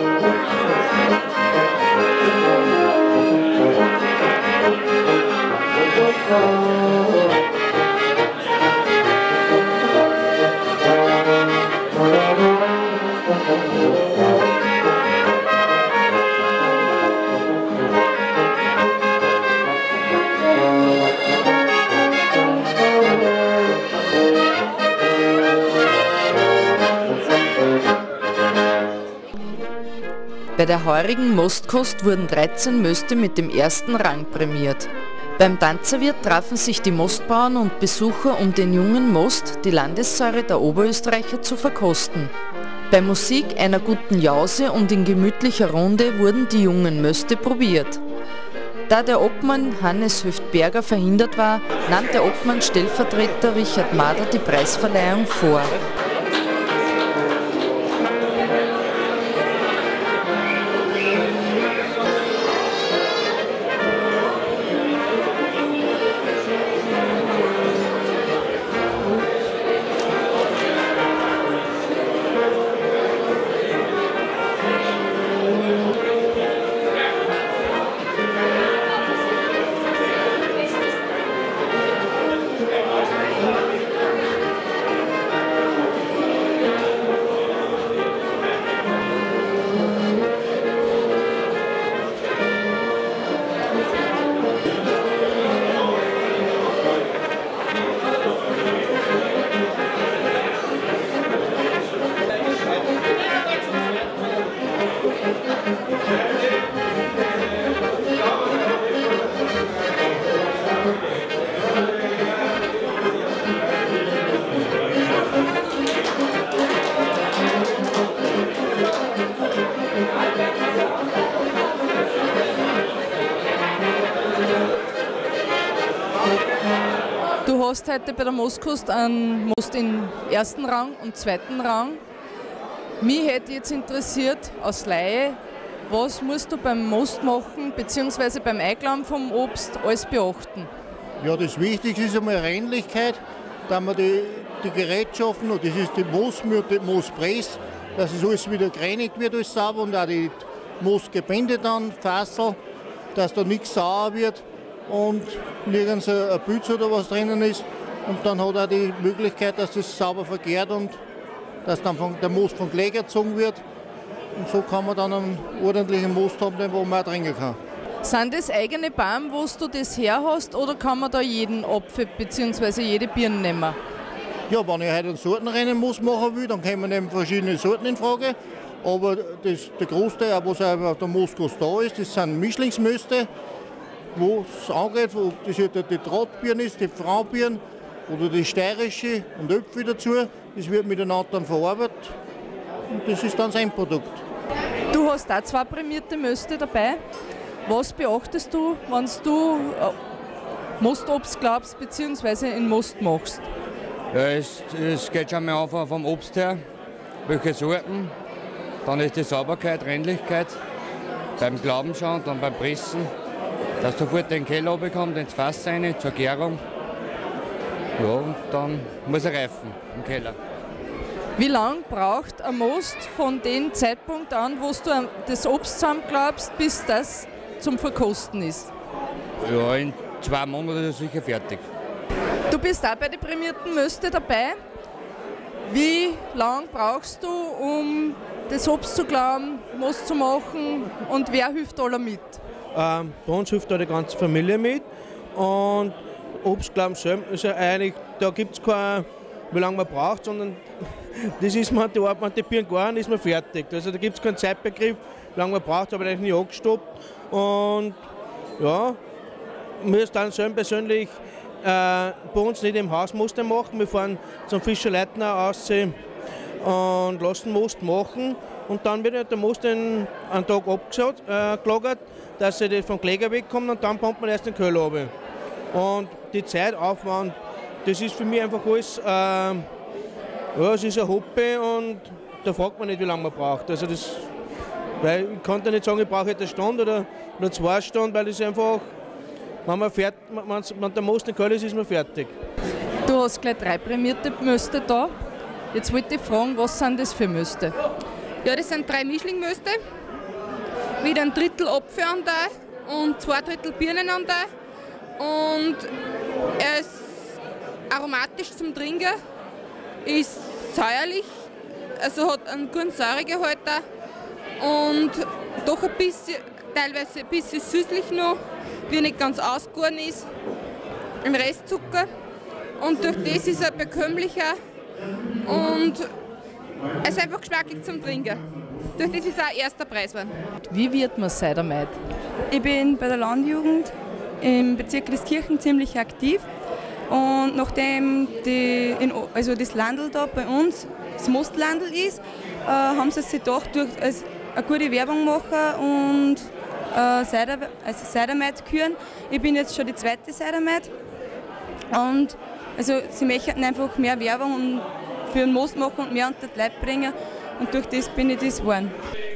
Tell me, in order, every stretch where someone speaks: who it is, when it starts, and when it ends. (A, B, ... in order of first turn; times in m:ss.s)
0:30.6-0:42.3 A
0:42.9-0:48.0 A
0:48.9-0:55.7 A
2:07.4-2:12.0 B
2:13.0-2:20.7 B
2:21.2-2:32.6 C
2:33.1-2:41.0 C
2:41.6-2:43.6 C
2:44.4-2:47.6 C
2:48.0-2:53.8 B
2:54.5-3:03.3 C
3:04.2-3:12.2 C
3:12.9-3:14.2 C
3:14.9-3:17.0 B
3:17.7-3:20.0 B
3:20.8-3:23.4 B
3:24.1-3:26.6 D
3:27.3-3:28.1 D
3:28.8-3:30.6 D
3:31.4-3:33.1 D
3:33.8-3:36.6 D
3:38.0-3:40.4 D
3:41.4-3:48.7 B
3:49.4-3:51.6 D
3:52.5-3:54.6 B
3:55.7-4:02.4 B
4:02.8-4:18.0 E
4:18.6-4:19.0 E
4:19.8-4:26.0 E
4:26.6-4:35.1 E
4:35.7-4:39.6 E
4:40.6-4:44.3 E
4:45.0-4:48.9 E
4:49.7-4:52.3 E
4:53.0-4:55.1 B
4:55.7-4:57.7 B
4:58.4-4:59.8 F
5:01.0-5:04.5 F
5:05.2-5:05.9 F
5:06.6-5:07.1 F
5:07.9-5:09.2 F
5:10.0-5:11.3 F
5:12.0-5:13.8 F
5:14.6-5:20.3 F
5:21.2-5:22.1 F
5:22.8-5:24.6 F
5:25.4-5:26.1 F
5:27.0-5:30.4 F
5:30.6-5:32.0 B
5:32.5-5:36.5 G
5:37.1-5:50.9 G
5:51.9-5:59.0 G